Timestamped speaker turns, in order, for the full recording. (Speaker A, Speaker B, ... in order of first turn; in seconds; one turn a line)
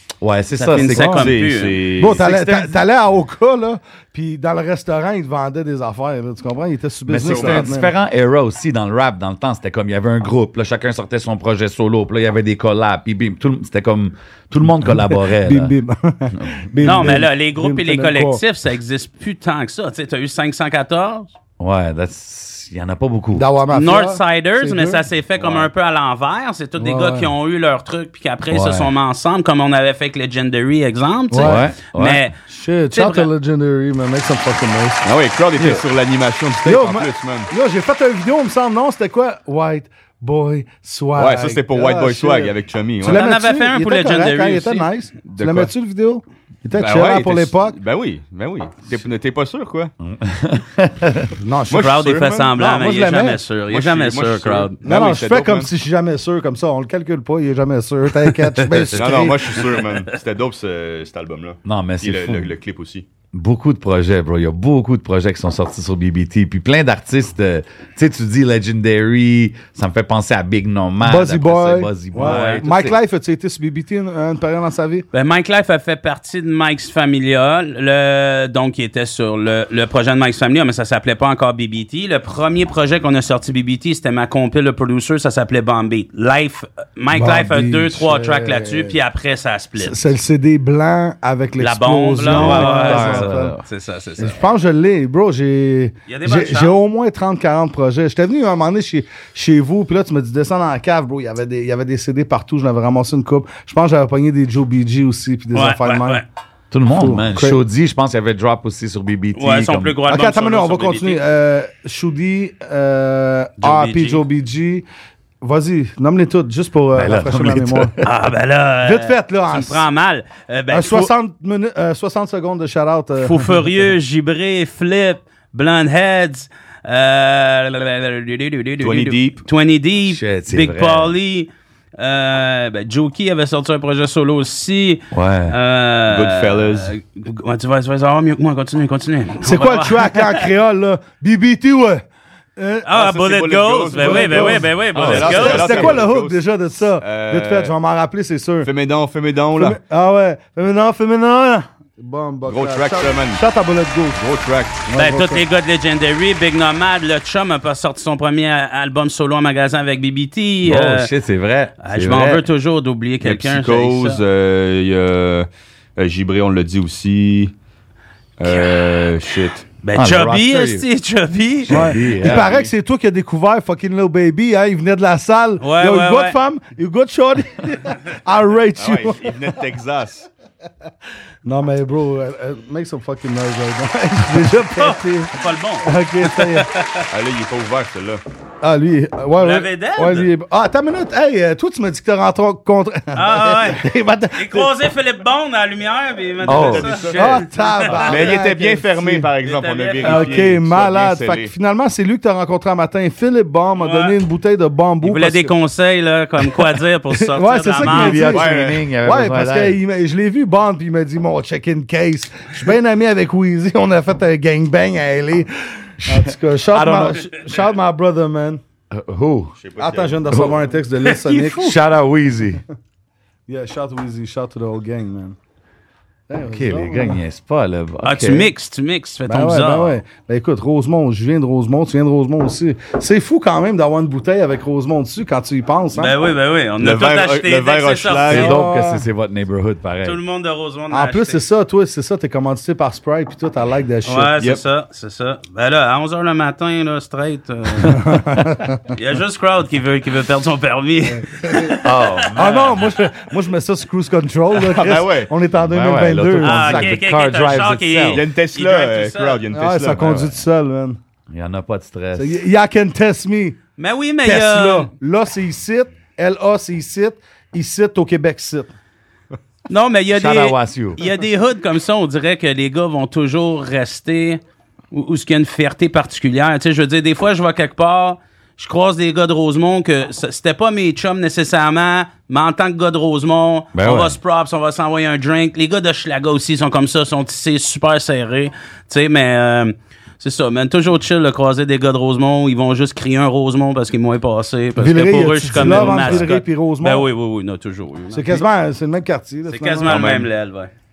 Speaker A: 0.2-1.3
Speaker B: 0.6-1.8
Speaker C: 1.1-2.6
Speaker D: 2.0-7.9
Speaker A: 7.1-15.7
Speaker C: 7.2-7.7
Speaker D: 14.8-18.4
Speaker A: 16.3-17.2
Speaker B: 16.8-21.3
Speaker A: 21.6-23.5
Speaker D: 23.3-25.0
Speaker B: 23.7-32.4
Speaker D: 26.8-27.3
Speaker A: 28.5-28.9
Speaker D: 31.3-31.6
Speaker A: 31.4-32.2
Speaker D: 32.5-35.0
Speaker B: 32.9-33.3
Speaker C: 35.0-37.5
Speaker D: 35.6-35.8
Speaker D: 36.6-47.8
Speaker C: 41.1-43.2
Speaker B: 43.0-44.9
Speaker C: 45.3-45.7
Speaker C: 46.7-49.9
Speaker A: 50.0-51.3
Speaker D: 51.4-53.4
Speaker C: 51.7-52.5
Speaker B: 51.7-54.8
Speaker C: 53.7-55.7
Speaker D: 54.8-59.6
Speaker C: 58.9-63.0
Speaker A: 61.6-62.5
Speaker A: 63.3-73.0
Speaker D: 71.0-75.0
Speaker B: 72.2-72.6
Speaker B: 75.1-90.1
Speaker D: 87.1-89.0
Speaker D: 89.8-93.5
Speaker B: 91.6-94.4
Speaker A: 92.2-93.6
Speaker D: 94.2-106.2
Speaker B: 96.1-96.8
Speaker B: 105.5-106.2
Speaker A: 106.7-110.0
Speaker D: 106.9-107.6
Speaker B: 109.4-111.2
Speaker D: 110.1-114.9
Speaker B: 113.6-114.2
Speaker D: 115.4-118.0
Speaker A: 116.9-117.9
Speaker B: 118.0-121.1
Speaker D: 118.8-119.8
Speaker D: 120.7-123.5
Speaker B: 123.2-140.5
Speaker C: 128.8-129.4
Speaker A: 130.0-131.1
Speaker A: 135.1-135.6
Speaker C: 136.1-136.9
Speaker D: 139.4-142.0
Speaker D: 142.6-142.9
Speaker B: 142.8-145.9
Speaker C: 142.9-146.4
Speaker D: 143.9-148.7
Speaker A: 144.9-145.9
Speaker C: 147.0-147.7
Speaker C: 148.6-149.8
Speaker D: 149.6-154.2
Speaker C: 152.4-153.4
Speaker C: 154.2-154.8
Speaker D: 154.9-155.4
Speaker B: 154.9-161.1
Speaker A: 160.6-162.4
Speaker B: 161.8-164.2
Speaker C: 163.2-167.5
Speaker C: 168.4-169.6
Speaker B: 168.5-169.0
Speaker B: 169.8-171.9
Speaker A: 169.9-170.9
Speaker A: 171.6-172.5
Speaker D: 171.7-179.5
Speaker C: 172.2-172.7
Speaker B: 175.6-176.4
Speaker C: 178.8-180.3
Speaker D: 181.4-185.3
Speaker B: 184.8-187.1
Speaker D: 185.8-186.7
Speaker C: 187.1-188.2
Speaker D: 188.6-194.7
Speaker B: 189.4-190.3
Speaker B: 193.1-198.2
Speaker C: 196.4-197.4
Speaker A: 196.4-197.5
Speaker D: 197.2-199.3
Speaker C: 197.9-201.5
Speaker B: 199.4-200.5
Speaker D: 200.0-205.5
Speaker B: 203.8-204.1
Speaker B: 205.0-208.3
Speaker D: 207.3-208.5
Speaker A: 207.8-209.8
Speaker C: 208.3-208.8
Speaker D: 209.0-215.5
Speaker A: 216.0-217.2
Speaker D: 216.0-218.6
Speaker A: 218.9-219.6
Speaker C: 219.6-220.4
Speaker D: 219.8-221.8
Speaker A: 220.3-220.6
Speaker A: 221.3-222.6
Speaker D: 223.5-225.4
Speaker D: 226.3-227.2
Speaker A: 226.4-228.5
Speaker B: 228.0-230.0
Speaker D: 229.3-236.1
Speaker B: 235.9-238.5
Speaker C: 236.8-238.5
Speaker A: 238.3-240.2
Speaker D: 238.3-239.0
Speaker B: 240.0-241.4
Speaker D: 240.9-244.3
Speaker B: 244.1-248.0
Speaker D: 247.8-248.8
Speaker B: 248.9-252.8
Speaker D: 251.1-251.8
Speaker A: 251.8-252.8
Speaker D: 252.4-256.9
Speaker C: 254.5-255.3
Speaker A: 255.6-258.2
Speaker B: 256.4-259.4
Speaker C: 258.1-260.3
Speaker D: 259.5-261.0
Speaker A: 261.3-262.4
Speaker D: 262.1-263.6
Speaker B: 263.8-264.9
Speaker D: 264.2-268.7
Speaker B: 269.7-298.4
Speaker A: 270.1-271.0
Speaker A: 283.7-284.1
Speaker D: 294.8-297.1
Speaker C: 295.5-296.2
Speaker D: 298.1-300.1
Speaker B: 299.5-300.7
Speaker C: 299.9-300.3